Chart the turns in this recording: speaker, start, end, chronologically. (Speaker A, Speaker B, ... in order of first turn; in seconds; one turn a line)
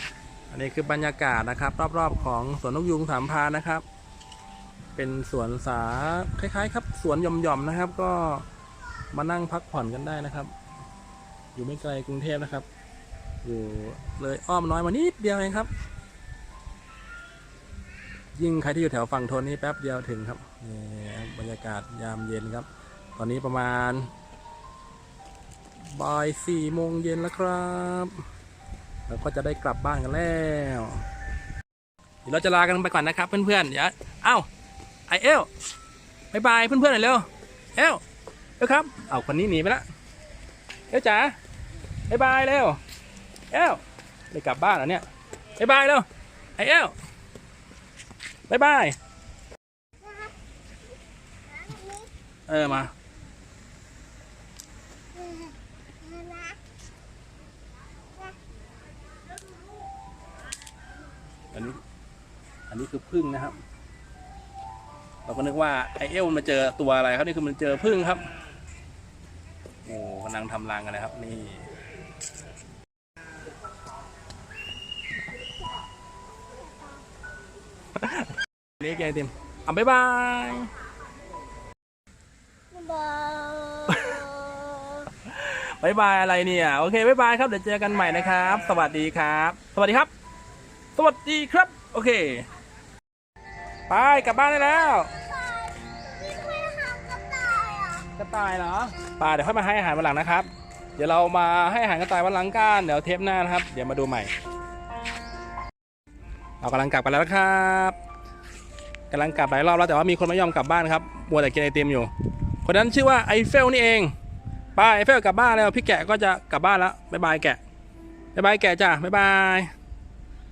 Speaker A: 0.5-3.8
Speaker A: 5.0-8.4
Speaker A: 9.1-10.5
Speaker A: 11.5-12.7
Speaker A: 13.4-15.7
Speaker A: 18.3-24.1
Speaker A: 25.9-28.2
Speaker A: 29.1-31.0
Speaker A: 32.2-34.5
Speaker A: 35.1-35.5
Speaker A: 36.3-38.0
Speaker A: 38.6-39.8
Speaker A: 40.9-41.4
Speaker A: 42.1-42.8
Speaker A: 43.5-43.8
Speaker A: 44.3-45.0
Speaker A: 45.6-46.0
Speaker A: 46.6-46.9
Speaker A: 48.5-49.0
Speaker B: 50.0-50.3
Speaker B: 51.5-52.1
Speaker A: 52.5-52.9
Speaker B: 55.1-56.6
Speaker A: 61.5-61.8
Speaker A: 62.7-63.6
Speaker A: 65.2-68.2
Speaker A: 69.8-71.6
Speaker A: 78.0-80.7
Speaker B: 82.7-85.1
Speaker A: 83.9-84.2
Speaker A: 85.2-90.1
Speaker A: 91.0-92.5
Speaker A: 93.9-95.1
Speaker B: 94.7-98.1
Speaker A: 98.2-104.3
Speaker A: 106.6-108.0
Speaker A: 109.1-112.1
Speaker A: 112.6-114.1
Speaker A: 114.8-117.6
Speaker A: 118.3-119.7